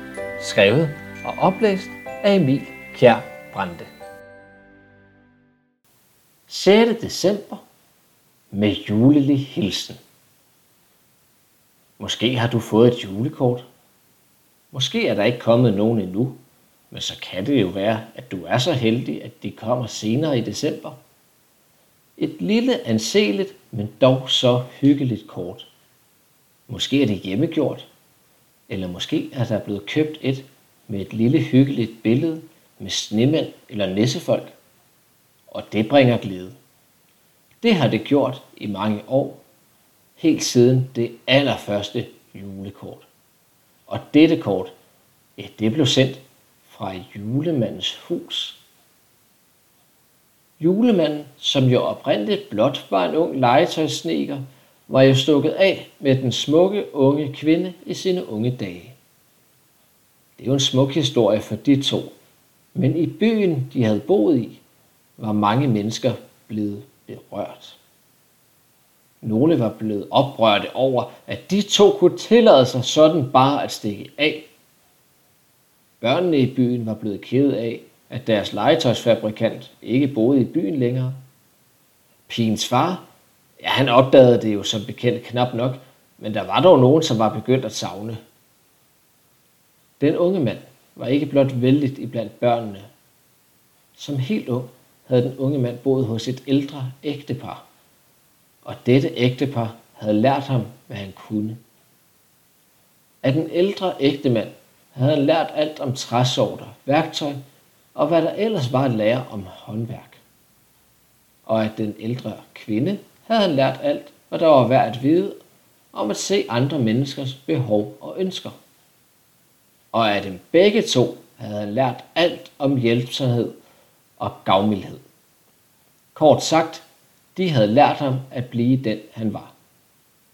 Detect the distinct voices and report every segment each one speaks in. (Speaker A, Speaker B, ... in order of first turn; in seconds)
Speaker A: 0.4-3.9, 6.5-7.6, 8.5-10.0, 12.0-13.7, 14.7-16.4, 16.9-21.0, 22.2-25.7, 26.7-27.9, 28.7-34.5, 35.5-36.6, 37.6-39.4, 40.2-43.1, 43.9-44.7, 45.4-48.6, 50.6-59.0, 60.4-62.1, 62.8-64.6, 65.2-67.8, 69.2-74.5, 76.0-81.2, 82.3-83.0, 83.6-88.2, 90.0-92.9, 94.0-97.6, 98.6-101.6, 103.2-107.4, 108.0-110.2, 111.5-115.4, 115.9-118.6, 119.9-123.5, 124.2-125.0, 126.1-129.5